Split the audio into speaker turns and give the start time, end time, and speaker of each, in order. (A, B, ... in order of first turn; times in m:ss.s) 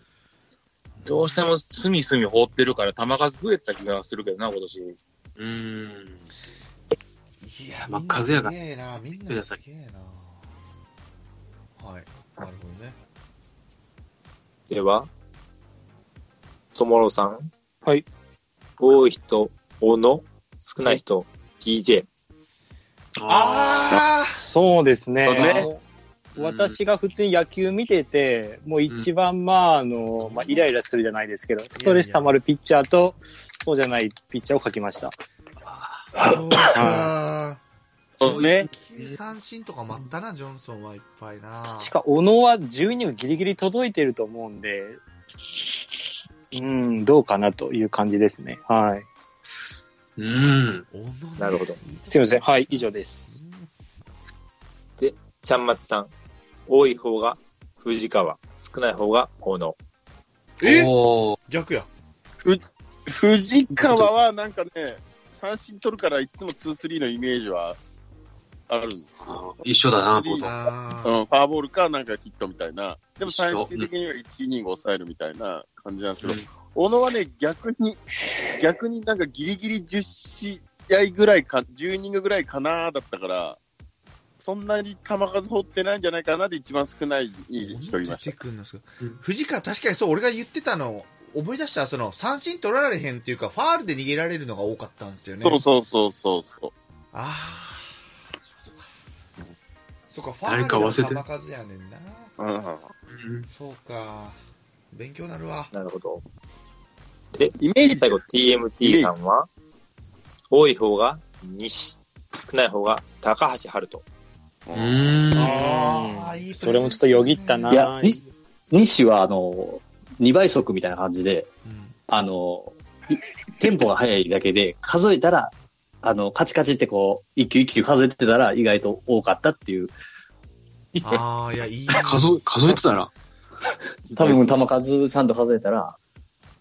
0:01.0-0:01.4 A
0:01.1-0:05.0 B
0:05.4-0:06.3 C
0:07.4-0:10.4 A
0:07.9-0:08.6 C
0:09.3-0:09.6 C
0:11.8-0:13.0 A
0:14.7-0:15.1 D
0:16.8-0:17.5 D
0:18.8-0:22.1 D
0:23.2-0:24.0 C
0:23.3-0:24.4 A
0:24.4-0:25.8 E
0:25.4-0:25.7 C
0:26.4-0:26.8 C
0:26.4-0:35.1 E
0:30.2-0:30.7 A
0:31.7-0:32.3 A
0:35.7-0:36.1 C
0:36.2-0:37.6 A
0:36.6-0:37.1 E
0:38.2-0:38.7 F
0:38.2-0:39.2 C
0:38.2-0:41.9 A
0:41.7-0:45.0 E
0:46.5-0:49.1 E
0:50.2-0:50.8 C
0:50.9-0:53.7 A
0:51.4-0:51.8 D
0:52.1-0:53.4 E
0:55.0-0:56.1 D
0:56.7-0:59.8 D
1:00.6-1:01.0 A
1:00.6-1:01.4 C
1:01.5-1:01.9 A
1:02.4-1:07.8 F
1:03.7-1:04.1 C
1:08.7-1:09.1 F
1:09.2-1:10.6 C
1:10.0-1:10.5 F
1:10.4-1:11.2 A
1:11.0-1:18.0 F
1:13.2-1:13.9 C
1:16.2-1:16.5 C
1:18.6-1:23.6 F
1:24.4-1:28.3 F
1:27.6-1:35.6 A
1:35.4-1:36.7 F
1:37.1-1:38.0 A
1:40.1-1:42.3 A
1:40.4-1:41.2 C
1:42.4-1:42.9 F
1:43.1-1:43.5 C
1:43.5-1:44.4 A
1:44.9-1:45.7 A
1:45.7-1:46.2 D
1:47.3-1:49.5 D
1:47.6-1:48.2 F
1:48.8-1:49.2 F
1:50.5-1:54.0 D
1:54.7-1:55.3 F
1:54.7-1:55.9 C
1:55.4-1:58.2 E
1:55.4-1:57.9 A
1:57.7-1:58.2 G
1:58.7-2:01.5 G
2:01.6-2:02.0 A
2:02.1-2:09.9 G
2:11.0-2:12.4 A
2:11.9-2:13.1 C
2:14.1-2:16.0 G